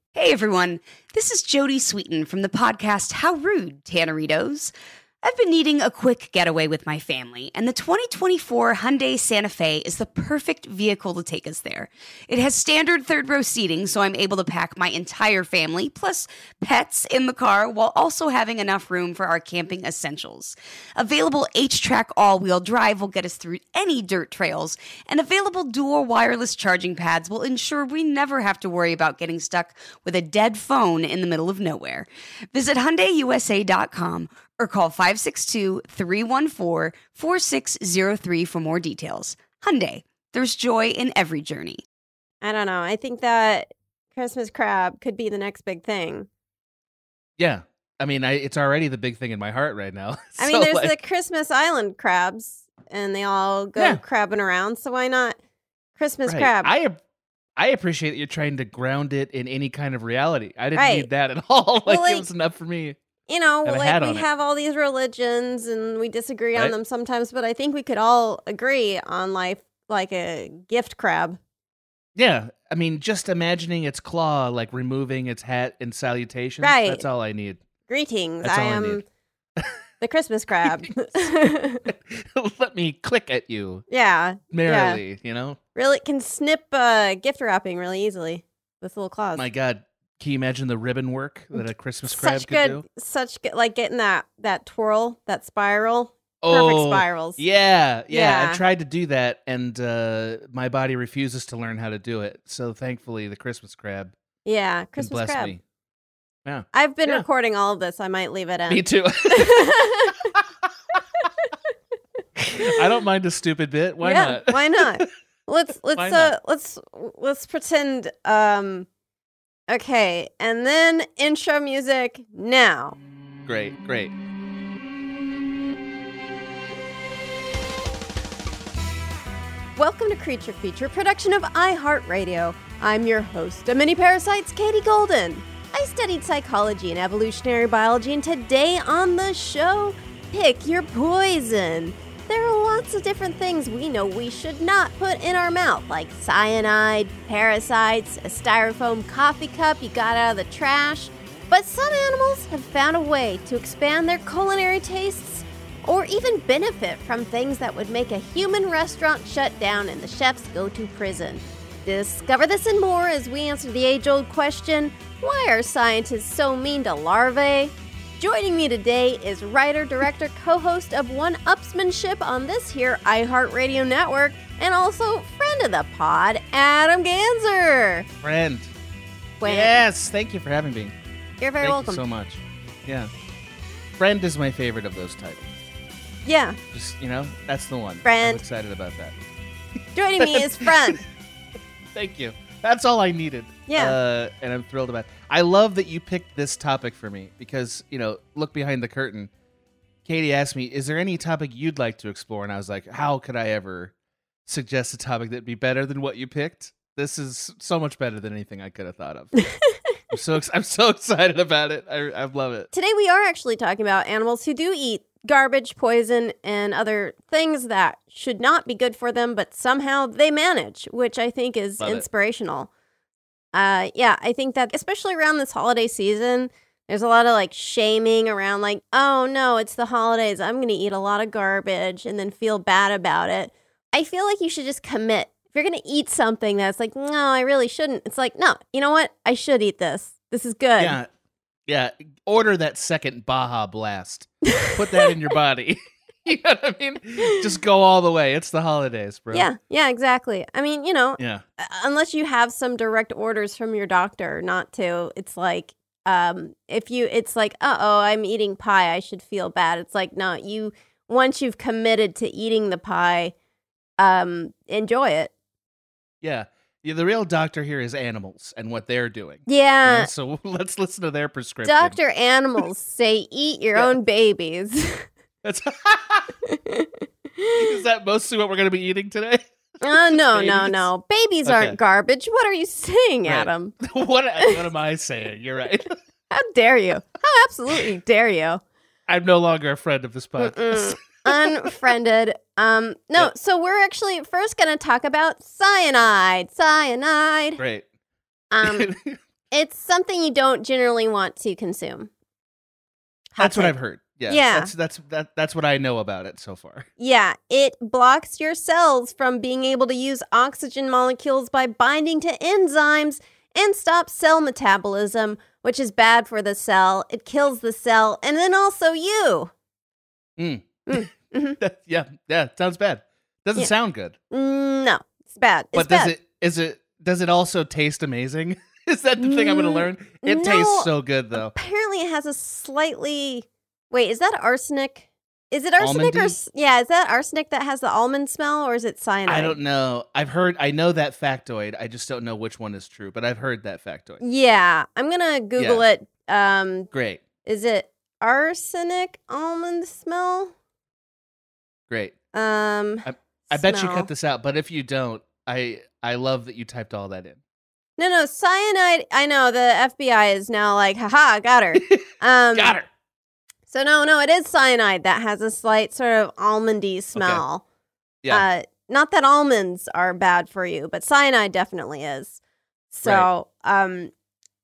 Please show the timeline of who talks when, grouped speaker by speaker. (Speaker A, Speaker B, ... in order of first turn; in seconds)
Speaker A: 0.1-4.7, 5.2-41.8
Speaker B: 42.4-46.3, 50.4-55.4, 56.0-56.7, 60.8-61.1, 61.9-62.3, 63.3-71.4, 76.6-77.0, 77.9-79.0, 80.0-81.8, 83.9-85.0, 85.8-89.5, 91.6-97.4, 98.1-98.6, 104.5-105.5, 106.7-110.2, 114.0-118.9, 119.7-123.0, 129.8-178.1, 179.4-179.8, 181.4-182.0, 186.3-186.6, 188.1-188.4, 190.0-191.0, 193.7-193.9, 212.7-222.7, 223.5-241.0, 249.3-263.3, 264.0-265.3, 269.5-270.1, 271.6-275.1, 276.5-277.8, 279.8-283.7, 286.3-288.6, 290.4-297.6, 298.5-298.9, 299.5-302.1, 303.4-303.8, 304.3-304.7, 307.0-319.5, 320.9-321.6, 324.3-326.1, 329.2-339.6, 344.2-346.9, 347.4-350.5, 352.3-354.1, 358.0-362.8, 363.7-367.6, 368.3-372.4, 372.9-374.1
Speaker C: 47.4-50.9, 56.3-57.0, 57.6-63.0, 63.6-64.3, 72.2-77.6, 78.4-79.0, 81.9-83.8, 84.5-85.6, 89.4-92.8, 96.4-104.1, 105.0-105.6, 106.5-107.2, 108.7-109.8, 112.4-115.0, 116.0-116.3, 123.5-124.1, 178.2-178.7, 179.4-180.9, 181.6-183.1, 184.0-185.5, 186.7-189.1, 190.2-191.0, 191.9-199.3, 200.1-203.9, 204.5-209.3, 210.1-212.7, 240.8-241.1, 241.7-249.5, 266.2-272.0, 275.4-276.3, 277.6-279.4, 280.1-280.9, 281.4-281.8, 283.2-286.0, 289.1-291.6, 297.6-297.8, 298.6-299.2, 303.4-306.9, 320.4-321.1, 321.6-324.1, 325.8-331.5, 335.8-336.4, 339.3-344.2, 345.6-345.8, 346.9-347.2, 353.1-357.4, 362.6-362.9, 367.2-367.4